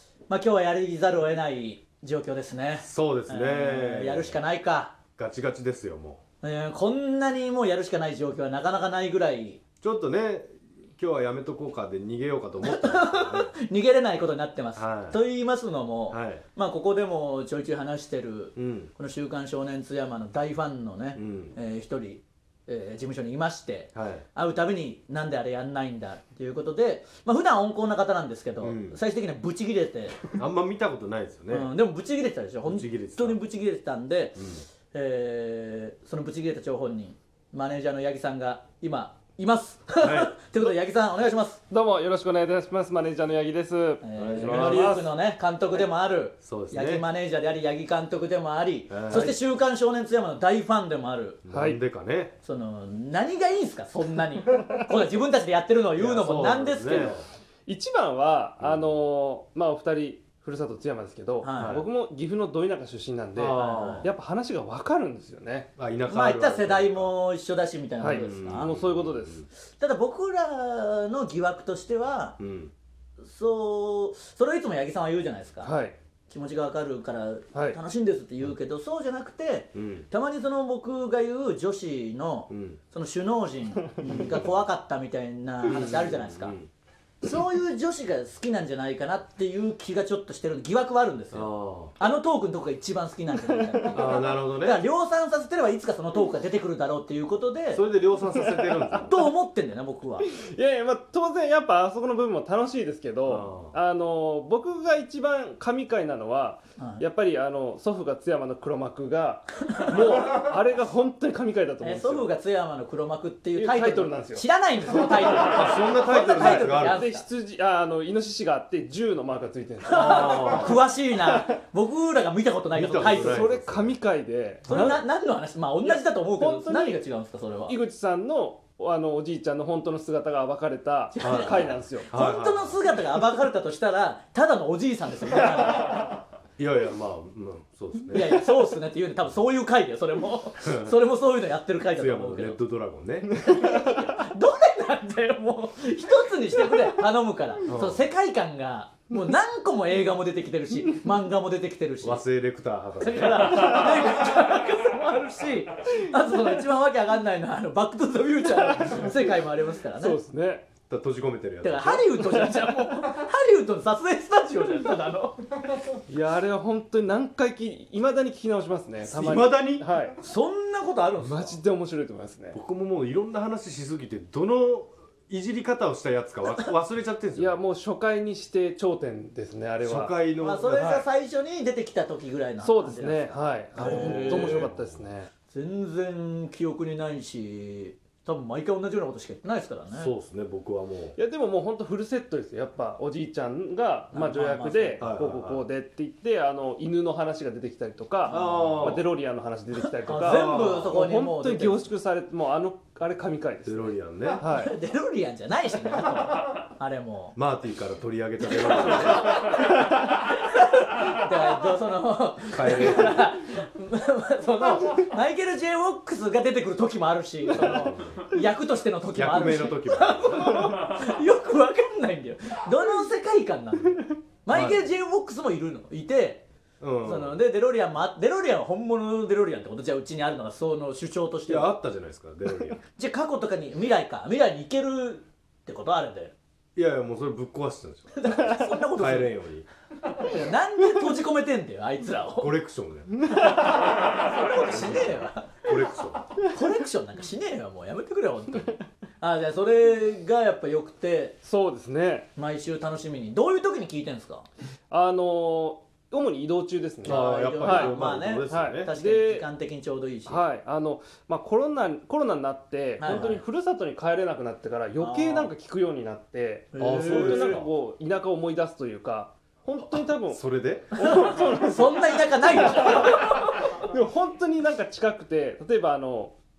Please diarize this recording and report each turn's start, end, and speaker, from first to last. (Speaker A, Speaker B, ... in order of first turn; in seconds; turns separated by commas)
Speaker A: 0.3-5.0, Speaker B: 2.8-4.4, Speaker B: 5.2-6.2, Speaker A: 6.4-9.6, Speaker B: 9.8-13.5, Speaker A: 12.6-30.2, Speaker B: 14.8-15.2, Speaker B: 16.1-16.4, Speaker B: 18.6-18.9, Speaker B: 21.2-21.5, Speaker B: 23.9-24.2, Speaker B: 28.6-29.0, Speaker B: 30.3-31.7, Speaker A: 31.5-41.6, Speaker B: 32.6-33.4, Speaker B: 34.4-34.6, Speaker B: 40.0-40.4, Speaker C: 41.7-45.1, Speaker A: 44.0-51.4, Speaker B: 44.2-45.0, Speaker B: 46.4-47.0, Speaker B: 48.9-49.4, Speaker B: 51.5-52.3, Speaker C: 51.5-51.8, Speaker A: 52.4-57.2, Speaker B: 56.0-57.2, Speaker C: 57.7-65.7, Speaker B: 58.6-59.0, Speaker A: 61.4-61.8, Speaker B: 61.6-61.9, Speaker B: 63.4-64.1, Speaker A: 63.5-64.1, Speaker B: 65.8-67.1, Speaker A: 66.0-68.7, Speaker C: 68.0-69.5, Speaker B: 68.1-69.4, Speaker A: 69.7-72.4, Speaker B: 72.4-72.7, Speaker A: 73.2-75.7, Speaker C: 75.6-76.0, Speaker A: 76.3-86.5, Speaker C: 77.5-77.8, Speaker B: 79.7-80.1, Speaker B: 82.5-82.8, Speaker B: 84.0-84.5, Speaker B: 85.7-86.7, Speaker A: 87.2-97.8, Speaker B: 91.3-92.0, Speaker C: 93.4-94.0, Speaker B: 93.9-94.8, Speaker B: 97.7-99.2, Speaker C: 98.2-99.0, Speaker A: 99.0-100.3, Speaker C: 100.2-112.3, Speaker B: 103.2-103.8, Speaker A: 106.8-107.0, Speaker A: 109.7-109.9, Speaker A: 111.8-117.2, Speaker C: 113.5-121.5, Speaker B: 115.3-117.0, Speaker B: 119.9-120.8, Speaker A: 119.9-123.6, Speaker B: 122.7-124.0, Speaker C: 123.0-125.0, Speaker B: 124.7-125.0, Speaker A: 124.7-127.8, Speaker C: 125.8-127.0, Speaker C: 127.6-132.1, Speaker A: 131.1-136.2, Speaker B: 131.2-132.8, Speaker B: 136.6-138.4, Speaker A: 138.1-142.6, Speaker B: 140.6-141.0, Speaker B: 141.9-143.3, Speaker A: 143.4-152.2, Speaker C: 143.4-144.1, Speaker B: 147.7-148.0, Speaker B: 152.0-153.7, Speaker A: 153.0-160.2, Speaker C: 158.8-159.3, Speaker C: 159.9-160.7, Speaker B: 160.9-162.2, Speaker A: 161.6-165.8, Speaker C: 162.1-163.0, Speaker C: 166.1-170.2, Speaker B: 169.0-170.1, Speaker A: 170.2-171.6, Speaker C: 171.2-172.6, Speaker B: 172.5-177.6, Speaker C: 177.3-180.2, Speaker B: 179.8-180.8, Speaker A: 180.4-184.7, Speaker C: 180.7-181.1, Speaker C: 182.6-185.3, Speaker B: 183.8-185.1, Speaker A: 185.5-190.1, Speaker B: 189.9-191.2, Speaker C: 191.2-204.7, Speaker A: 194.1-195.0, Speaker B: 195.0-195.6, Speaker A: 198.2-198.9, Speaker B: 198.3-199.1, Speaker A: 200.0-201.9, Speaker B: 200.1-201.0, Speaker B: 203.6-204.4, Speaker A: 204.4-207.3, Speaker B: 207.3-209.4, Speaker A: 208.5-226.4, Speaker B: 212.5-213.3, Speaker B: 217.7-218.2, Speaker B: 219.1-220.6, Speaker B: 224.5-224.8, Speaker B: 226.8-227.4, Speaker A: 227.0-231.7, Speaker B: 231.5-232.8, Speaker A: 232.8-236.3, Speaker B: 236.8-239.7, Speaker A: 238.1-239.3, Speaker A: 240.1-242.5, Speaker B: 242.4-243.2, Speaker A: 243.3-245.7, Speaker C: 243.4-243.8, Speaker B: 244.6-246.3, Speaker A: 246.5-251.4, Speaker C: 251.4-252.3, Speaker A: 252.4-254.5, Speaker C: 254.9-257.9, Speaker B: 257.0-258.9, Speaker A: 257.0-260.4, Speaker C: 258.5-259.5, Speaker C: 260.2-270.4, Speaker A: 263.0-263.4, Speaker A: 265.0-265.5, Speaker A: 266.7-267.6, Speaker B: 266.8-267.7, Speaker B: 270.3-271.1, Speaker C: 270.9-276.3, Speaker A: 271.0-273.7